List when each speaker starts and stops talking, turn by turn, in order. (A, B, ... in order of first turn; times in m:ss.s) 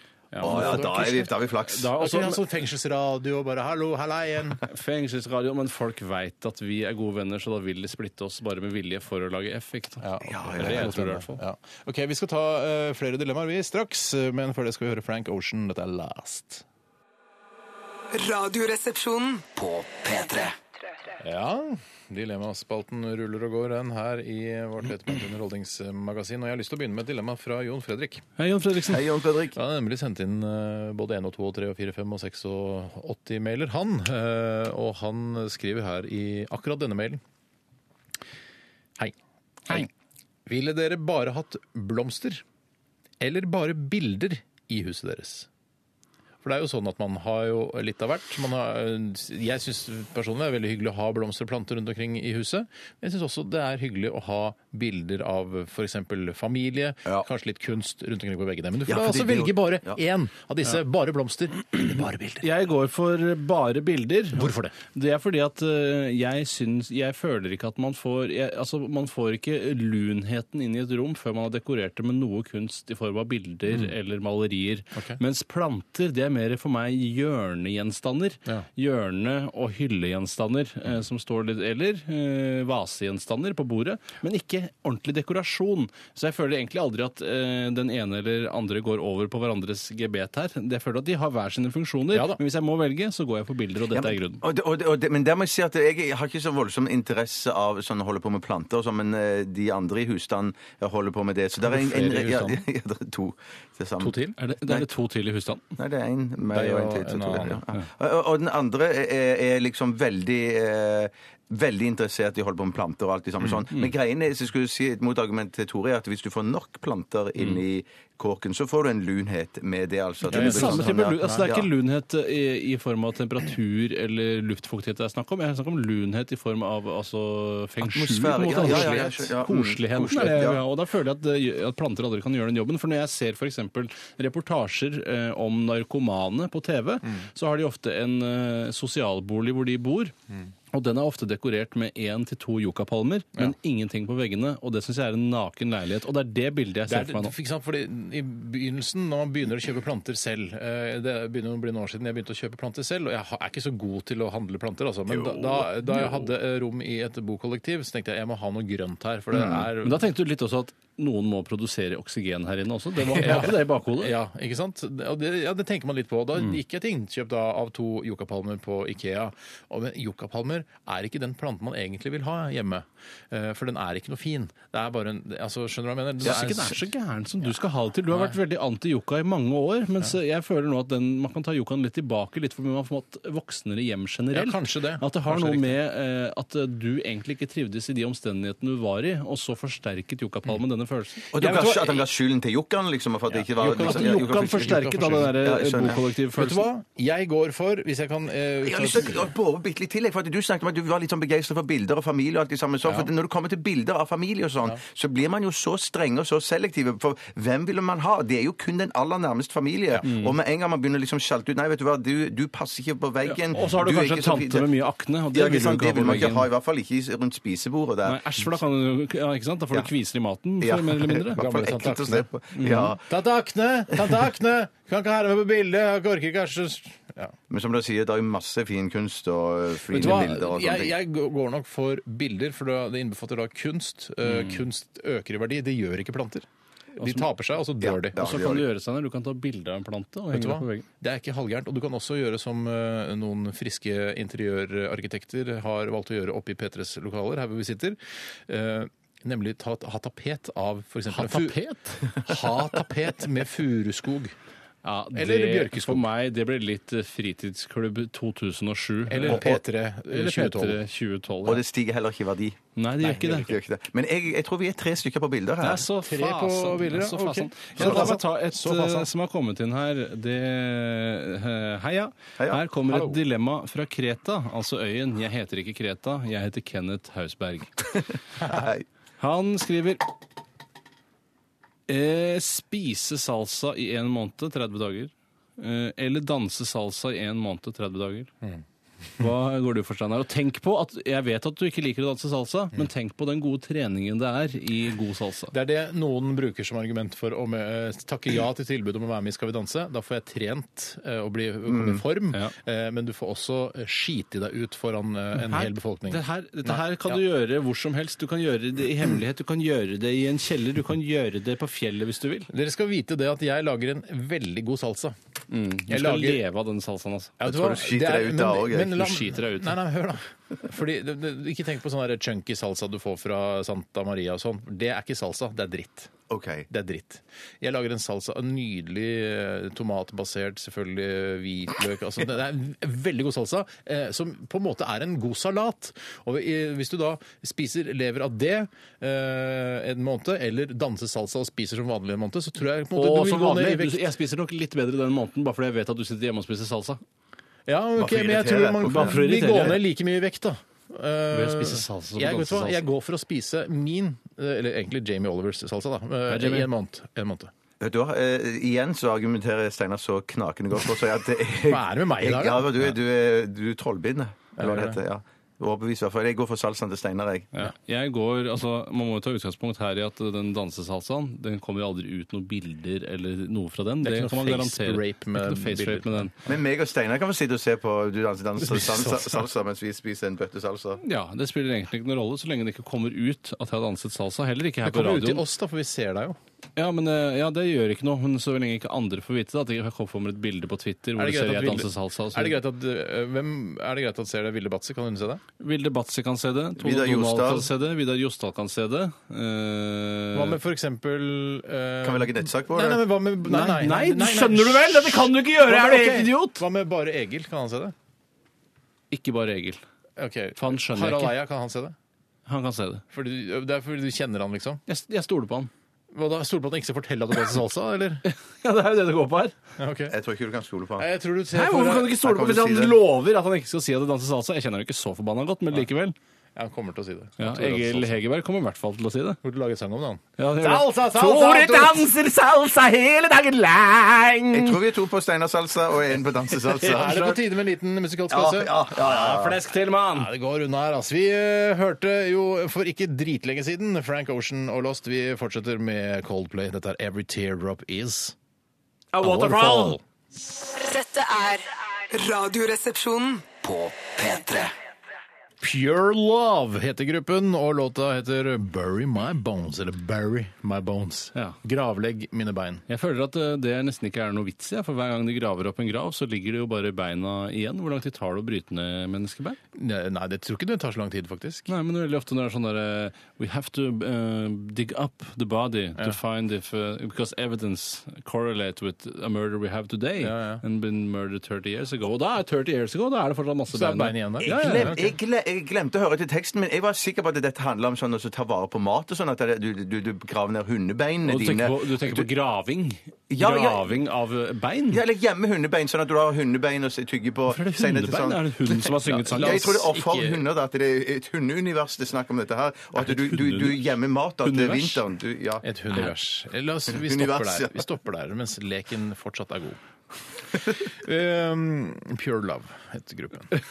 0:00.3-0:02.4 A
0:00.4-0:01.3 B
0:00.4-0:01.9 C
0:02.0-0:04.6 B
0:04.6-0:11.4 A
0:10.0-0:16.6 B
0:10.3-0:10.9 C
0:18.1-0:19.4 D
0:19.5-0:20.6 E
0:21.2-0:28.2 B
0:28.4-0:29.2 A
0:28.9-0:29.6 C
0:29.5-0:37.2 B
0:40.5-0:42.4 B
0:43.2-0:45.5 B
0:46.4-1:02.5 B
0:58.9-1:00.0 C
1:02.4-1:34.4 A
1:04.4-1:04.8 B
1:32.1-1:32.4 B
1:34.0-1:44.9 C
1:41.6-1:42.6 B
1:44.0-1:44.4 B
1:44.4-1:45.6 A
1:45.8-2:01.7 C
1:46.5-1:47.6 B
2:00.3-2:01.5 B
2:00.3-2:20.2 A
2:07.8-2:10.6 C
2:08.5-2:09.3 B
2:20.7-2:27.4 A
2:26.9-2:40.0 B
2:35.1-2:35.7 C
2:39.8-2:44.2 A
2:43.0-2:56.8 B
2:56.2-3:12.0 A
2:58.1-2:58.4 B
3:04.3-3:05.8 B
3:11.3-3:16.0 C
3:13.3-3:15.4 B
3:13.6-3:16.7 A
3:16.3-3:19.3 B
3:18.6-3:34.7 C
3:30.0-3:30.3 A
3:33.2-3:36.5 A
3:35.3-3:38.3 C
3:38.0-3:41.4 A
3:40.6-3:43.0 C
3:41.3-3:42.3 B
3:42.6-3:43.0 A
3:43.0-3:47.4 B
3:47.5-3:50.9 C
3:49.9-3:58.2 B
3:54.3-3:54.6 A
3:57.0-3:57.3 A
3:57.8-3:58.7 C
3:58.1-4:00.9 A
4:00.3-4:11.6 B
4:11.1-4:12.2 A
4:12.1-4:14.4 B
4:14.8-4:19.5 A
4:15.1-4:16.0 B
4:19.1-4:20.8 B
4:19.3-4:19.6 C
4:20.1-4:21.6 A
4:21.4-4:22.6 C
4:22.8-4:23.5 A
4:23.0-4:23.5 B
4:23.3-4:25.8 C
4:25.6-4:37.8 A
4:26.0-4:29.1 B
4:27.8-4:28.1 C
4:32.9-4:33.2 B
4:38.4-4:38.7 B
4:38.5-4:38.8 C
4:39.2-4:40.0 A
4:41.9-4:48.3 A
4:49.2-4:55.5 A
4:55.5-5:07.2 B
5:01.7-5:02.0 C
5:05.4-5:12.5 A
5:12.5-5:15.2 B
5:15.5-5:17.5 A
5:15.9-5:16.4 B
5:17.4-5:26.1 B
5:17.4-5:19.0 C
5:19.0-5:19.8 A
5:26.3-5:26.7 C
5:26.7-5:44.1 B
5:42.9-5:47.0 A
5:47.7-5:57.5 B
5:48.0-5:49.2 C
5:48.8-5:49.8 A
5:51.3-5:52.9 A
5:56.3-5:56.7 A
5:57.8-6:07.5 C
6:01.7-6:03.0 B
6:04.6-6:05.0 B
6:07.5-6:16.4 A
6:14.0-6:16.5 B
6:16.5-6:21.0 C
6:18.6-6:19.4 B
6:21.0-6:25.4 A
6:24.8-6:26.4 B
6:26.8-6:32.6 A
6:31.2-6:35.4 B
6:35.6-6:40.6 A
6:36.8-6:37.7 C
6:40.3-6:47.9 B
6:42.0-6:43.0 C
6:43.4-6:46.6 A
6:49.1-6:49.8 A
6:50.2-6:52.0 B
6:50.6-6:51.4 A
6:52.5-6:53.0 A
6:53.1-6:54.8 B
6:54.9-6:55.7 A
6:56.1-6:58.2 B
6:58.2-6:59.6 A
6:59.8-7:00.2 B
7:00.1-7:01.1 C
7:01.0-7:02.2 B
7:01.5-7:06.2 A
7:02.2-7:03.0 C
7:06.6-7:08.2 B
7:07.4-7:09.4 A
7:09.4-7:12.1 B
7:10.4-7:14.8 A
7:14.5-7:17.2 C
7:16.5-7:17.4 A
7:16.8-7:18.9 B
7:18.3-7:19.6 C
7:18.9-7:20.3 A
7:20.1-7:28.4 B
7:29.1-7:30.0 A
7:29.2-7:30.0 B
7:30.6-7:33.5 D
7:33.5-7:34.7 E
7:35.6-7:42.8 B
7:42.9-7:49.6 A
7:49.7-7:51.7 B
7:51.7-8:05.0 A
8:00.2-8:00.6 B
8:03.7-8:05.1 B
8:04.4-8:12.3 C
8:11.2-8:15.0 A
8:13.3-8:13.9 C
8:14.9-8:25.6 C
8:17.5-8:20.4 A
8:19.1-8:19.9 B
8:23.0-8:25.0 A
8:25.6-8:33.6 B
8:26.9-8:27.8 C